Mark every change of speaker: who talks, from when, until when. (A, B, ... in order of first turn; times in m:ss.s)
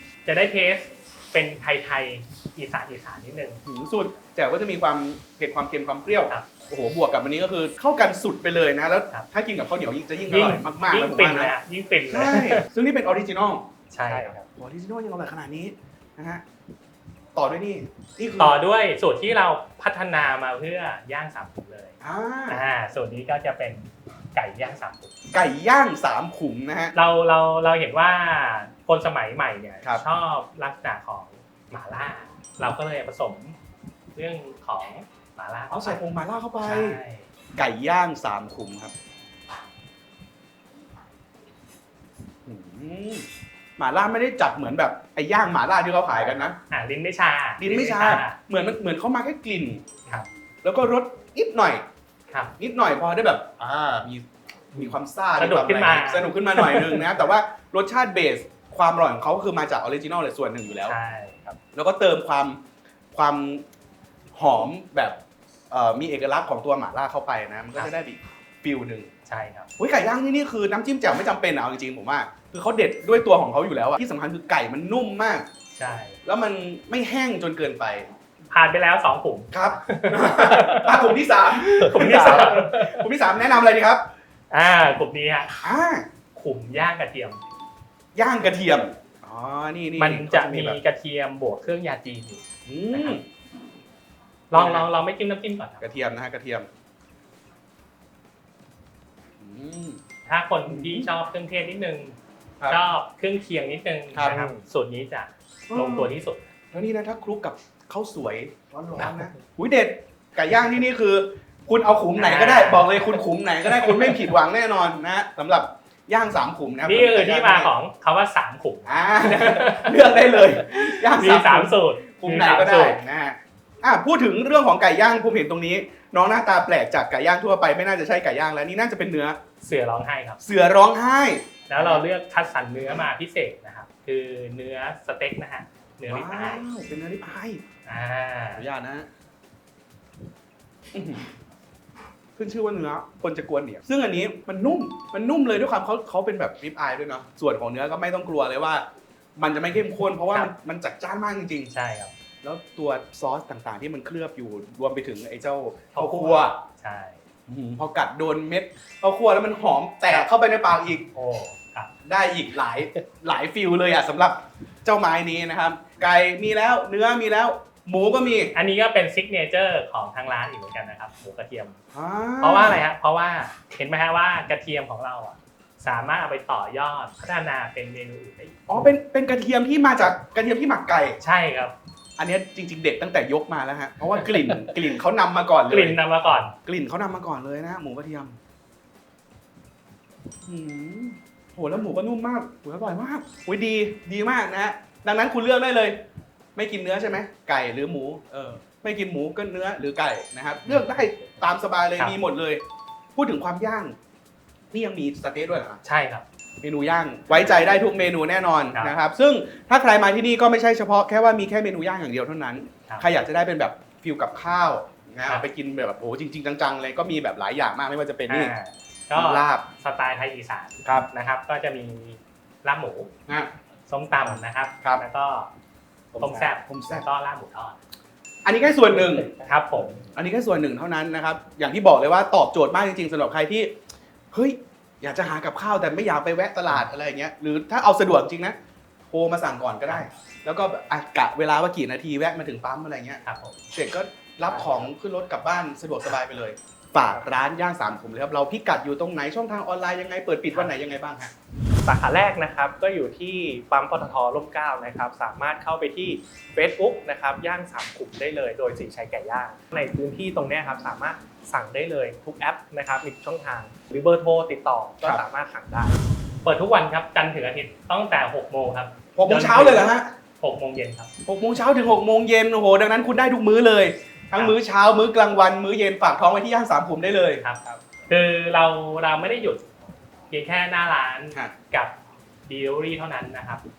0:00.2-0:03.6 A
0:03.6-0:11.6 B
0:10.3-0:12.6 A
0:12.1-0:13.7 B
0:13.9-0:14.3 A
0:14.1-0:14.4 C
0:14.4-0:16.4 B
0:17.3-0:18.6 B
0:18.4-0:21.9 A
0:22.0-0:22.6 B
0:22.5-0:25.1 A
0:25.3-0:26.9 B
0:26.9-0:33.6 A
0:34.1-0:36.0 A
0:35.7-0:37.0 B
0:36.6-0:37.3 A
0:37.6-0:38.9 B
0:42.5-0:43.2 B
0:43.8-0:46.6 B
0:46.1-0:48.4 A
0:47.6-0:49.8 B
0:50.6-0:51.8 B
0:52.6-1:01.0 B
0:54.7-0:57.3 A
1:00.8-1:01.6 A
1:01.7-1:02.6 B
1:03.1-1:03.6 B
1:04.3-1:05.2 B
1:05.7-1:09.1 B
1:09.2-1:09.7 A
1:09.8-1:15.4 B
1:15.8-1:16.2 A
1:16.2-1:18.1 B
1:18.5-1:23.1 A
1:19.5-1:24.0 B
1:24.5-1:25.5 A
1:25.6-1:26.0 B
1:26.3-1:27.4 A
1:28.1-1:30.8 B
1:30.0-1:32.4 A
1:32.6-1:33.2 B
1:32.9-1:33.2 A
1:34.5-1:35.8 A
1:34.5-1:34.9 B
1:35.8-1:36.7 B
1:39.4-1:40.0 B
1:40.2-1:42.2 A
1:40.7-1:41.1 B
1:42.7-1:46.5 A
1:44.1-1:44.5 B
1:45.7-1:46.1 B
1:46.7-1:57.7 B
1:49.0-1:49.3 A
1:52.2-1:54.3 A
1:56.8-2:03.0 A
1:58.8-2:09.4 B
2:09.6-2:10.4 A
2:10.4-2:12.0 B
2:11.7-2:16.6 A
2:16.1-2:17.6 B
2:17.8-2:18.6 A
2:18.5-2:19.1 B
2:20.9-2:21.3 B
2:22.4-2:28.8 B
2:29.4-2:31.7 B
2:31.7-2:32.1 A
2:32.4-2:36.6 B
2:35.9-2:37.2 A
2:37.5-2:41.1 B
2:41.1-2:41.9 A
2:42.0-2:48.5 B
2:48.5-2:51.8 A
2:51.9-2:52.8 B
2:52.4-2:58.6 A
2:58.7-3:01.2 B
3:01.2-3:01.7 A
3:02.2-3:08.4 B
3:04.4-3:04.7 A
3:05.7-3:06.5 A
3:10.5-3:16.0 B
3:16.5-3:22.6 B
3:23.2-3:23.9 B
3:24.7-3:25.8 B
3:25.8-3:26.2 A
3:26.6-3:38.5 B
3:38.3-3:43.1 A
3:39.1-3:39.7 B
3:43.9-3:45.5 A
3:44.2-3:45.0 B
3:46.1-3:47.0 B
3:46.2-3:47.8 A
3:48.4-3:49.3 B
3:49.3-3:50.0 A
3:50.1-3:53.7 B
3:54.3-3:58.5 B
3:59.1-4:03.2 B
4:03.2-4:03.6 A
4:03.7-4:11.3 B
4:04.5-4:04.9 A
4:10.5-4:10.8 A
4:11.8-4:26.0 C
4:26.4-4:31.1 A
4:29.1-4:30.1 B
4:31.2-4:37.4 B
4:37.4-4:39.6 A
4:40.3-4:41.9 A
4:42.4-4:43.6 A